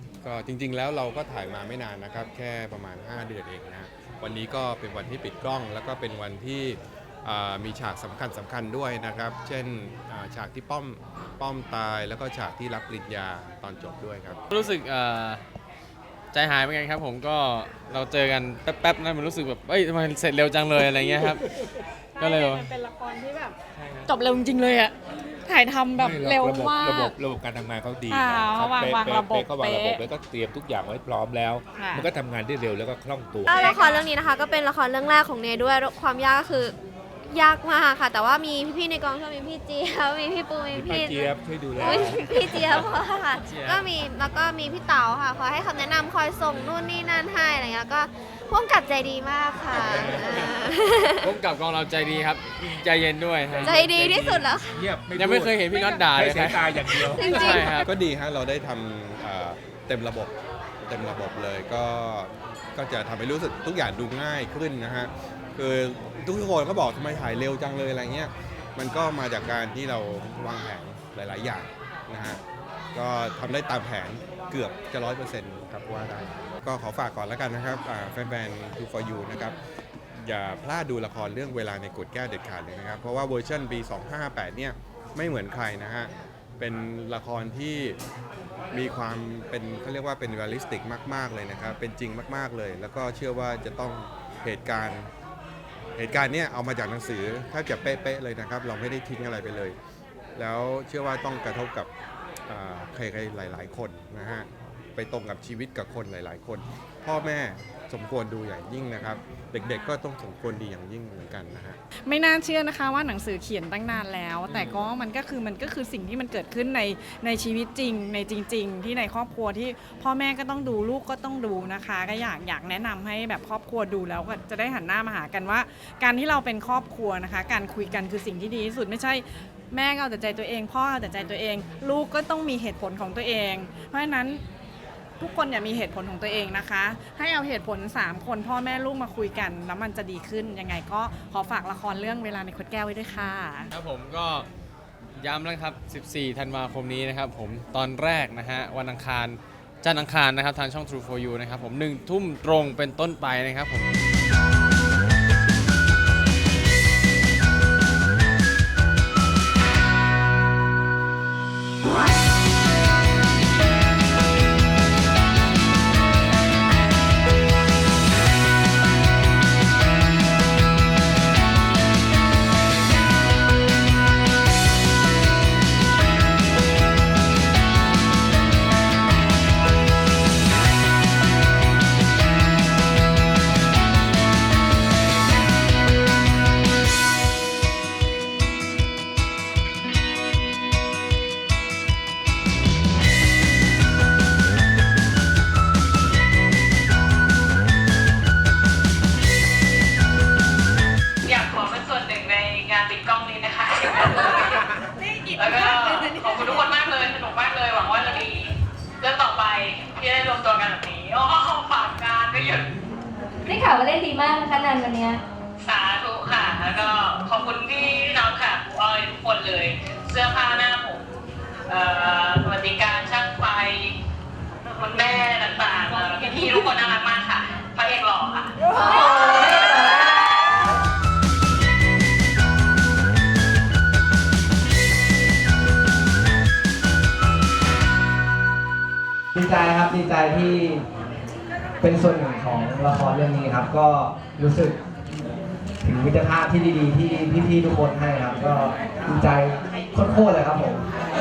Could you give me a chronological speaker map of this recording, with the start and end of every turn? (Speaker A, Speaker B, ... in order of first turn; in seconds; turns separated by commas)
Speaker A: 0.2-14.4, Speaker B: 14.5-15.4, Speaker B: 16.3-21.4, Speaker C: 22.1-27.2, Speaker B: 22.2-22.7, Speaker B: 23.7-24.1, Speaker D: 25.9-33.6, Speaker C: 28.1-30.0, Speaker C: 31.7-32.1, Speaker E: 33.4-36.7, Speaker C: 33.5-34.1, Speaker E: 37.3-51.2, Speaker D: 40.7-42.9, Speaker B: 43.3-43.9, Speaker D: 49.7-50.5, Speaker B: 51.2-53.8, Speaker D: 53.5-57.8, Speaker E: 53.6-54.8, Speaker B: 55.1-57.9, Speaker E: 57.1-57.8, Speaker A: 57.8-60.3, Speaker A: 60.9-72.4, Speaker A: 72.9-79.5, Speaker A: 80.2-88.0, Speaker A: 88.7-95.1, Speaker A: 96.0-99.8, Speaker A: 100.3-101.9, Speaker A: 102.5-111.8, Speaker C: 112.1-134.4, Speaker B: 114.5-114.8, Speaker C: 135.2-143.7, Speaker B: 143.7-144.5, Speaker B: 145.2-153.9, Speaker F: 201.2-212.7, Speaker G: 213.5-215.2, Speaker F: 215.6-221.1, Speaker F: 221.7-224.0, Speaker F: 224.7-229.3, Speaker G: 228.7-230.2, Speaker H: 239.4-240.8, Speaker H: 241.8-244.8, Speaker H: 245.8-250.8